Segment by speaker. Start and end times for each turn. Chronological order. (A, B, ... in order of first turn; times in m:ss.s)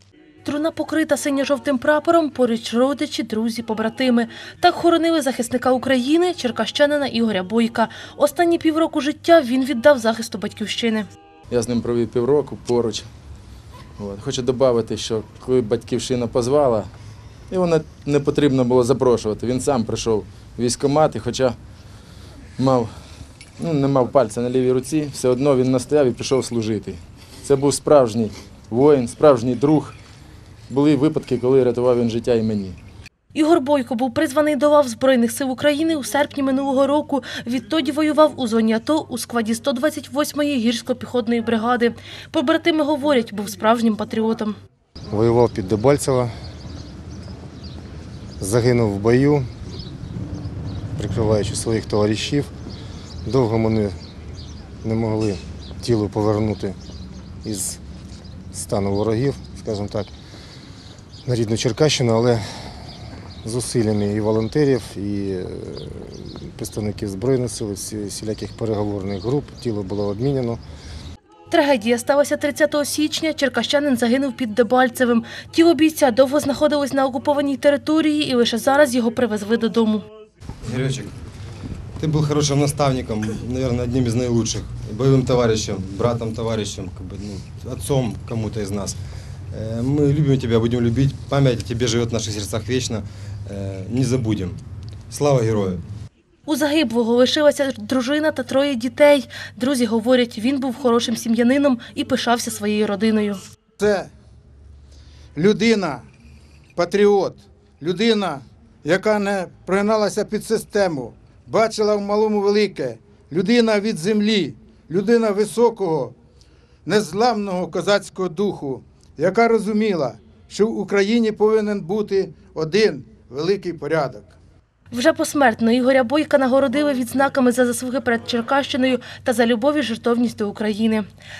0:00.4-0:11.1 A
0:11.5-0:13.1 B
0:14.0-0:16.9 B
0:17.5-0:21.6 B
0:22.6-0:22.9 B
0:23.6-0:29.9 B
0:30.7-0:32.8 B
0:33.3-0:44.5 A
0:45.1-0:46.3 C
0:48.4-0:49.4 C
0:51.0-0:52.5 C
0:53.2-0:53.9 C
0:54.8-0:56.8 C
0:57.4-0:57.8 C
0:58.5-1:00.1 C
1:01.2-1:02.4 C
1:03.4-1:10.6 C
1:11.5-1:20.0 A
1:20.6-1:21.1 D
1:22.0-1:29.0 D
1:29.5-1:34.6 D
1:35.1-1:35.8 D
1:36.4-1:43.4 A
1:43.8-1:44.1 E
1:45.4-1:46.0 E
1:46.8-1:56.1 E
1:56.8-2:04.3 E
2:04.9-2:11.0 A